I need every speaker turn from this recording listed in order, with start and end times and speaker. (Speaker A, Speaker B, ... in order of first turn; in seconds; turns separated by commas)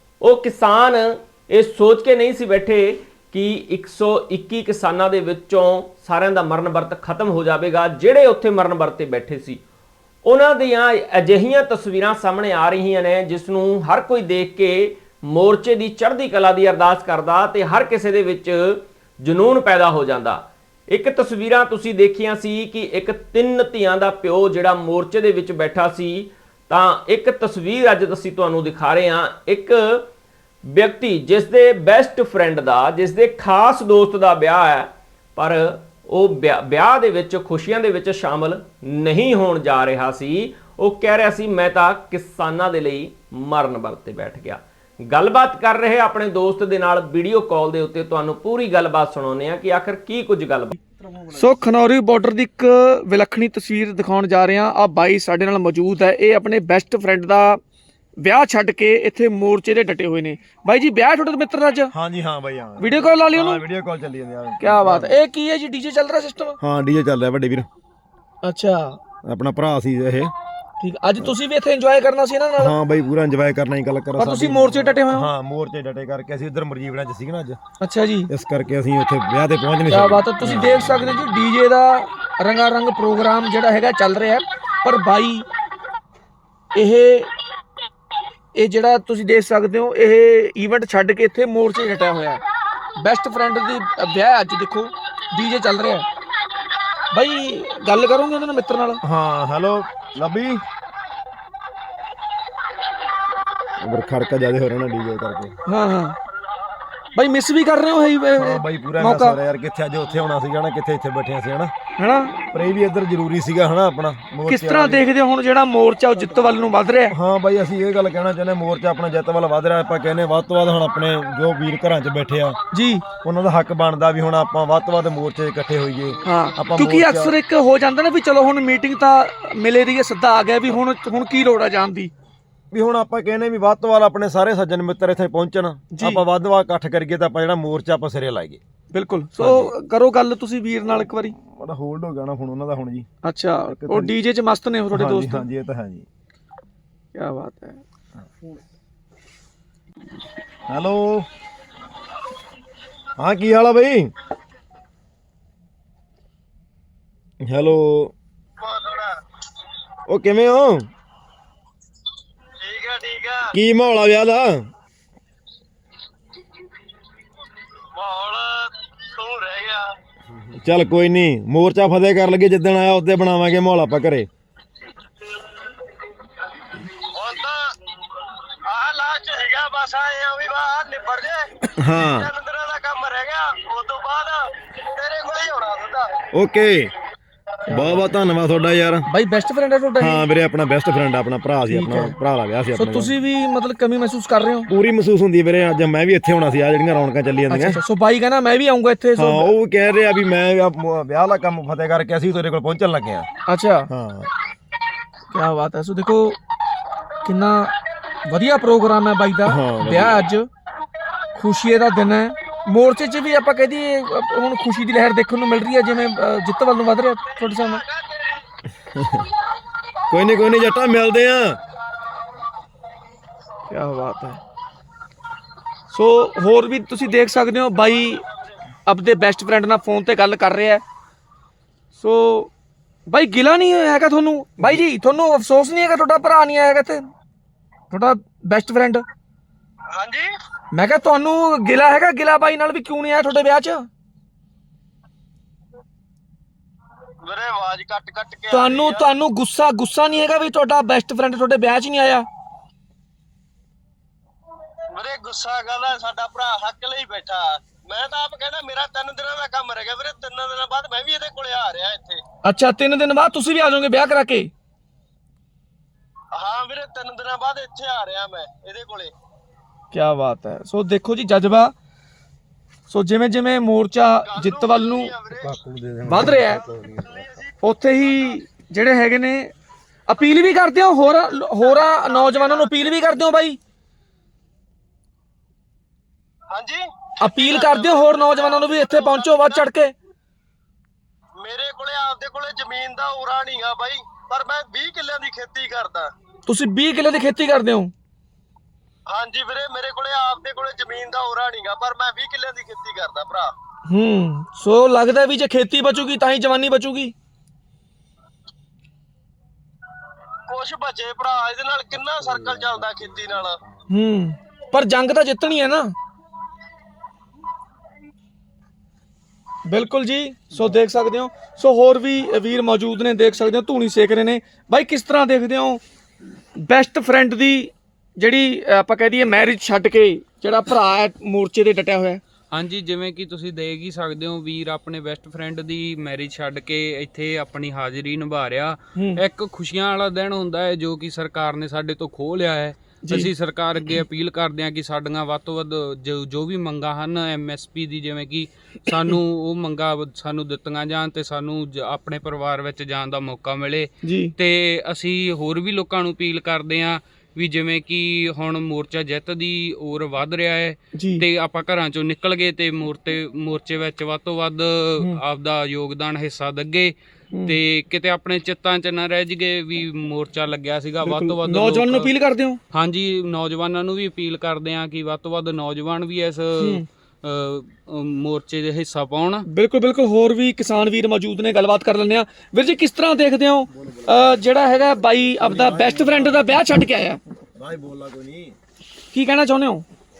Speaker A: 0.2-9.6, Speaker A: 10.2-30.0, Speaker A: 30.7-50.8, Speaker B: 51.3-57.6, Speaker B: 58.2-61.9, Speaker C: 61.9-65.2, Speaker B: 62.8-63.6, Speaker B: 64.6-66.6, Speaker C: 66.6-67.7, Speaker B: 68.4-69.0, Speaker C: 69.2-70.3, Speaker B: 70.8-72.7, Speaker C: 72.6-77.6, Speaker B: 74.2-75.3, Speaker B: 77.8-78.3, Speaker C: 78.3-81.3, Speaker B: 79.9-85.5, Speaker B: 86.7-87.3, Speaker B: 88.5-92.4, Speaker B: 93.0-96.0, Speaker B: 97.1-99.0, Speaker C: 99.0-100.6, Speaker C: 103.8-105.5, Speaker B: 105.7-106.2, Speaker B: 107.1-109.4, Speaker C: 108.4-111.7, Speaker B: 112.0-112.4, Speaker C: 112.5-115.0, Speaker B: 114.5-117.1, Speaker C: 117.1-122.5, Speaker B: 122.7-123.0, Speaker C: 123.2-127.3, Speaker B: 126.2-132.1, Speaker C: 132.7-138.6, Speaker B: 135.9-136.2, Speaker B: 138.9-141.3, Speaker C: 139.4-139.7, Speaker C: 141.4-143.1, Speaker B: 143.2-145.4, Speaker C: 143.7-144.1, Speaker C: 144.9-146.1, Speaker B: 147.1-147.8, Speaker C: 150.7-151.3, Speaker C: 153.2-154.1, Speaker C: 157.4-158.1, Speaker D: 158.6-159.1, Speaker C: 160.1-160.9, Speaker D: 162.6-163.5, Speaker C: 163.5-164.7, Speaker D: 167.9-169.8, Speaker C: 170.5-174.3, Speaker D: 177.1-177.7, Speaker D: 178.6-181.5, Speaker C: 181.8-182.3, Speaker D: 182.1-186.1, Speaker C: 186.3-186.9, Speaker B: 187.7-188.1, Speaker C: 187.7-189.1, Speaker B: 189.1-190.2, Speaker C: 190.0-193.1, Speaker B: 191.7-192.1, Speaker B: 192.7-194.7, Speaker C: 194.7-197.8, Speaker B: 197.5-199.5, Speaker C: 199.2-203.3, Speaker B: 203.5-203.9, Speaker C: 203.9-204.3, Speaker B: 205.3-206.4, Speaker B: 207.2-207.7, Speaker B: 208.3-210.5, Speaker C: 209.4-210.2, Speaker B: 211.3-217.8, Speaker D: 217.3-218.4, Speaker C: 218.9-219.3, Speaker C: 220.1-221.6, Speaker B: 223.7-224.4, Speaker B: 225.9-228.2, Speaker B: 228.8-230.8, Speaker B: 231.9-232.5, Speaker B: 233.1-237.1, Speaker B: 237.9-239.0, Speaker D: 239.9-240.3, Speaker B: 240.7-243.9, Speaker D: 247.2-249.1, Speaker B: 248.5-252.2, Speaker D: 254.9-262.2, Speaker B: 262.4-264.5, Speaker D: 266.3-269.1, Speaker B: 269.9-271.7, Speaker B: 272.9-275.2, Speaker D: 274.2-275.5, Speaker C: 275.4-277.0, Speaker B: 276.1-276.6, Speaker D: 276.9-278.3, Speaker B: 277.6-279.5, Speaker B: 280.1-283.6, Speaker D: 281.6-283.0, Speaker D: 286.5-289.7, Speaker B: 287.2-289.9, Speaker D: 291.4-296.1, Speaker B: 296.4-297.9, Speaker D: 299.1-303.5, Speaker B: 303.9-307.1, Speaker D: 310.5-313.6, Speaker B: 313.9-315.9, Speaker B: 319.6-325.8, Speaker B: 326.6-332.2, Speaker E: 332.5-366.9, Speaker B: 338.9-339.2, Speaker B: 343.0-343.3, Speaker B: 354.0-354.3, Speaker B: 360.9-361.2, Speaker E: 367.4-372.1, Speaker B: 371.0-372.6, Speaker E: 372.7-379.4, Speaker B: 376.6-376.8, Speaker B: 379.4-387.2, Speaker C: 383.7-384.4, Speaker C: 385.4-386.4, Speaker C: 387.6-388.6, Speaker B: 389.1-389.8